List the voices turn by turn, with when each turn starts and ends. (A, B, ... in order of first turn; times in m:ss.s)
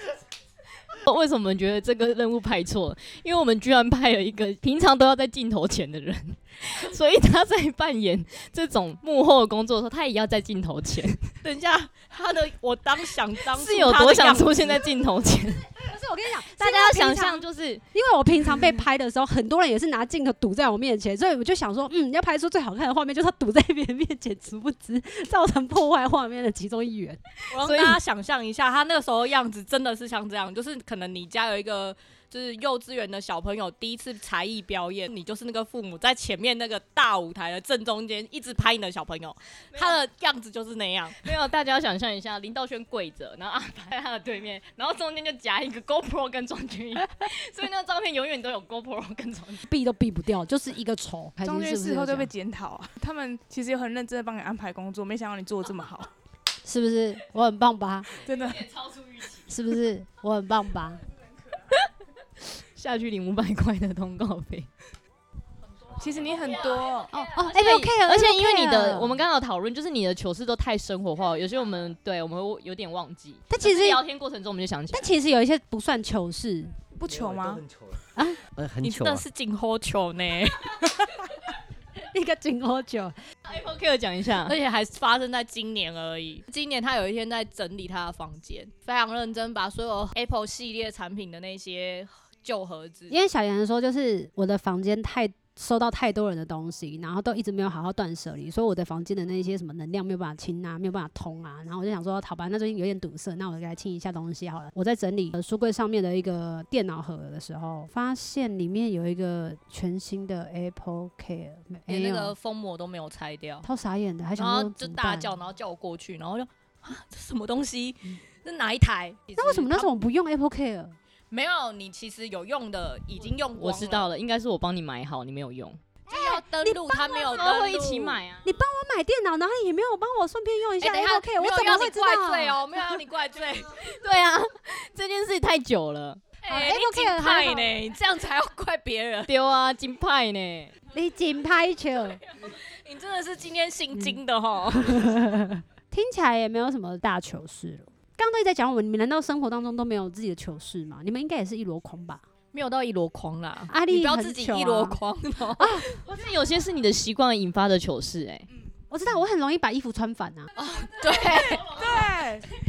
0:00.9-0:11.3 A
0:11.4-0:14.8 B
0:13.5-0:15.7 A
0:15.8-0:27.2 C
0:16.6-0:17.8 A
0:27.5-0:41.2 B
0:27.6-0:28.0 A
0:39.7-0:40.0 A
0:41.2-0:49.7 A
0:49.7-0:52.3 C
0:51.4-0:56.1 D
0:56.6-0:58.2 C
0:58.2-0:58.7 D
0:58.7-0:59.4 A
0:59.5-1:01.0 C
1:02.4-1:04.7 A
1:06.0-1:07.1 D
1:07.1-1:09.2 C
1:07.1-1:15.1 A
1:13.5-1:14.0 C
1:14.9-1:16.8 C
1:17.0-1:17.6 D
1:17.1-1:19.2 E
1:18.8-1:20.9 B
1:22.1-1:23.2 C
1:23.5-1:24.6 A
1:24.4-1:33.2 B
1:33.1-1:52.3 C
1:51.9-1:53.7 B
1:53.6-1:55.3 C
1:54.4-1:59.9 B
1:59.4-2:01.0 C
2:01.3-2:04.1 B
2:03.6-2:05.8 A
2:06.1-2:07.7 C
2:06.1-2:08.2 B
2:07.2-2:08.5 A
2:08.4-2:12.6 C
2:10.8-2:13.9 B
2:13.8-2:16.2 A
2:16.4-2:19.3 B
2:16.5-2:17.7 C
2:19.3-2:20.7 A
2:20.9-2:22.2 C
2:22.4-2:25.1 B
2:24.8-2:32.2 C
2:32.5-2:35.8 B
2:33.7-2:35.0 C
2:35.6-2:35.9 C
2:35.9-2:38.5 A
2:38.9-2:40.5 C
2:40.6-2:41.8 B
2:40.6-2:42.1 A
2:41.6-2:42.5 D